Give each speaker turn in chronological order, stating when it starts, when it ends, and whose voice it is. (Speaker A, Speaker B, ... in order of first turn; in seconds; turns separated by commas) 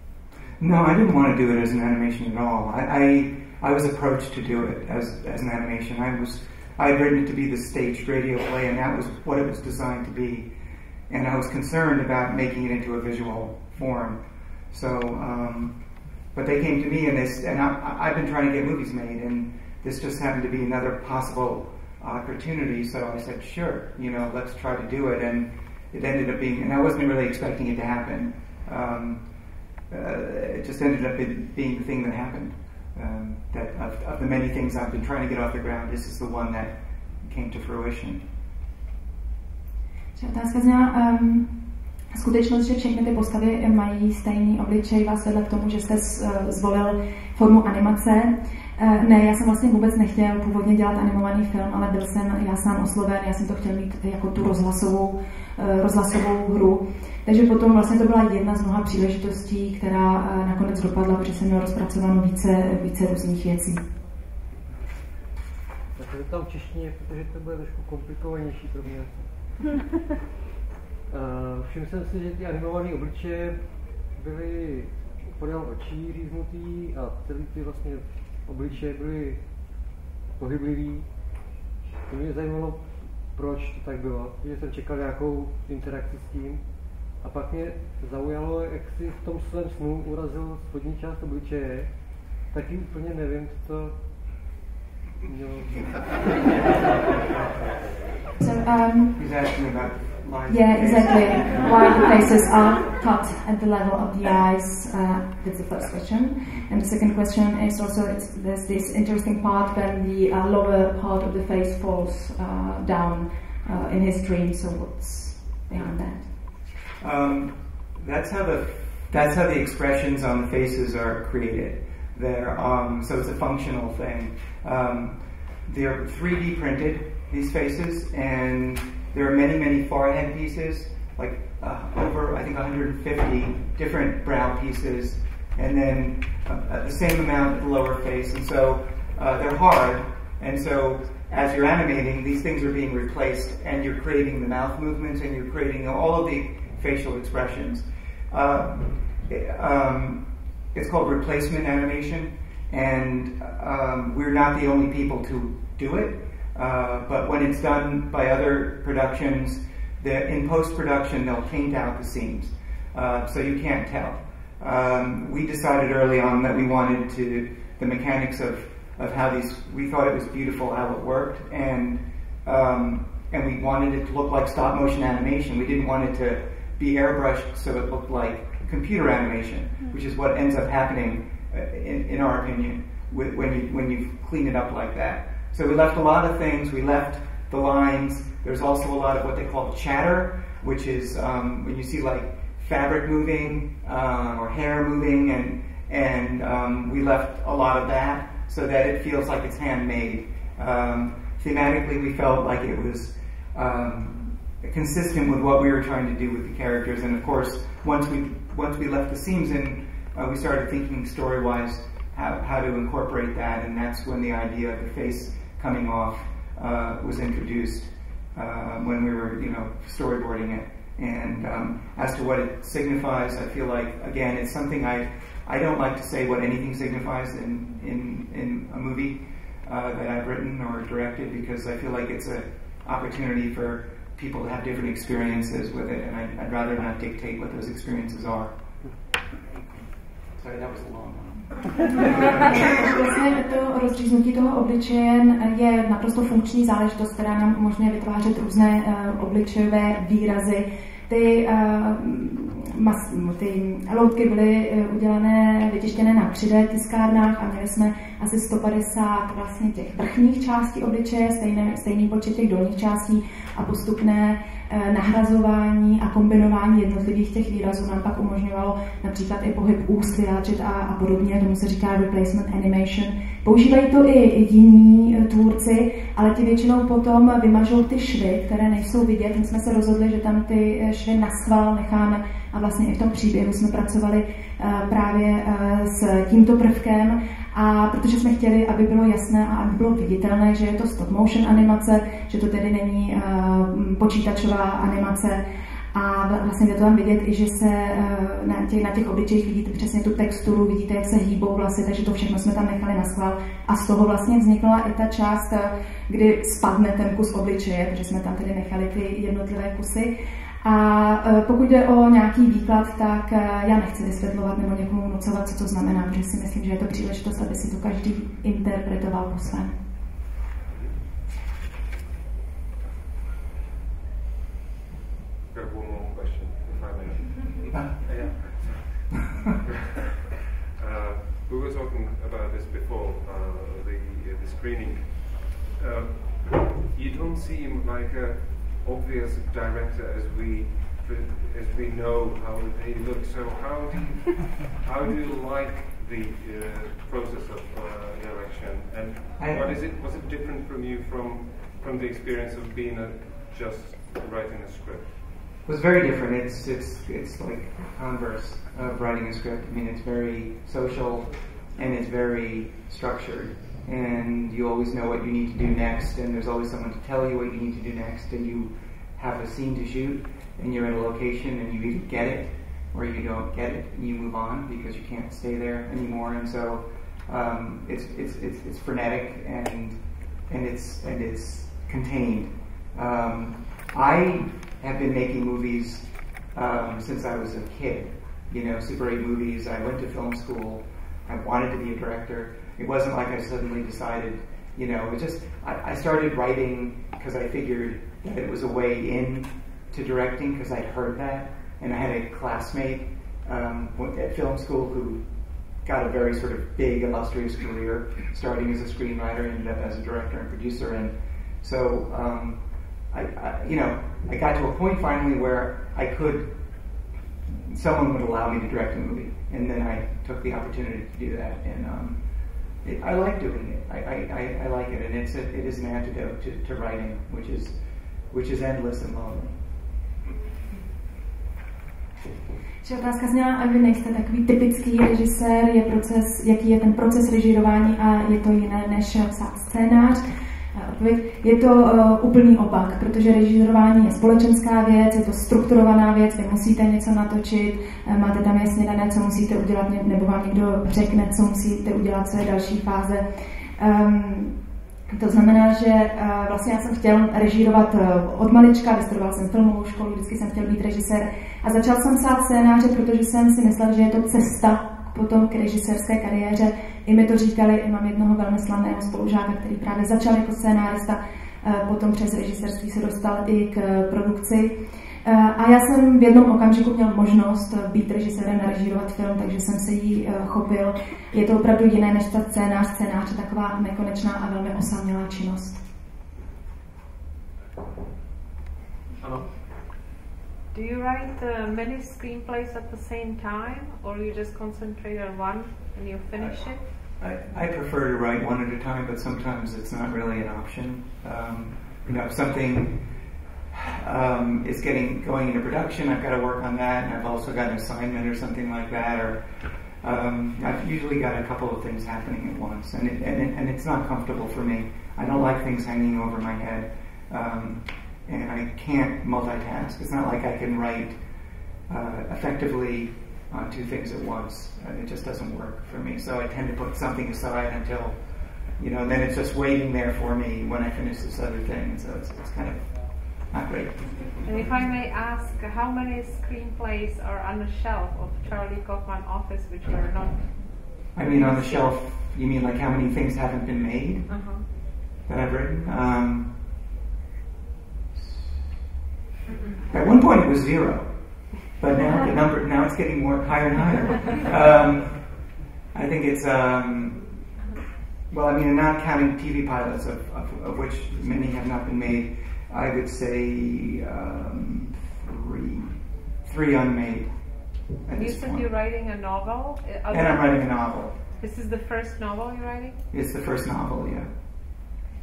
Speaker A: 0.6-10.5, Speaker A: 11.1-15.8, Speaker A: 16.3-29.2, Speaker A: 29.9-38.2, Speaker B: 40.2-63.9, Speaker C: 66.0-69.7, Speaker C: 71.1-81.4, Speaker C: 82.0-94.5, Speaker C: 95.2-96.9, Speaker B: 98.4-99.2, Speaker A: 99.2-102.1, Speaker B: 100.5-116.3, Speaker A: 117.0-150.2, Speaker A: 150.7-238.5, Speaker A: 240.3-243.0, Speaker B: 242.0-295.4, Speaker B: 295.9-319.8, Speaker D: 320.7-321.0, Speaker D: 325.5-330.2, Speaker A: 327.7-328.5, Speaker D: 330.8-355.2, Speaker A: 349.4-349.8, Speaker A: 355.6-405.2, Speaker A: 405.8-416.6, Speaker A: 417.5-422.2, Speaker A: 422.8-427.8, Speaker A: 428.3-429.6, Speaker B: 432.8-453.3, Speaker B: 453.8-454.6, Speaker B: 455.1-474.7, Speaker B: 475.2-485.8, Speaker D: 489.2-489.5, Speaker E: 490.7-496.9, Speaker A: 496.4-509.5, Speaker A: 510.0-521.2, Speaker A: 521.9-534.4, Speaker E: 534.4-541.9, Speaker A: 541.1-546.5, Speaker E: 544.3-544.6, Speaker A: 548.1-548.4, Speaker E: 549.5-549.8, Speaker A: 549.9-557.3, Speaker A: 558.3-568.7, Speaker E: 568.1-573.0, Speaker A: 570.1-571.2, Speaker A: 573.1-575.0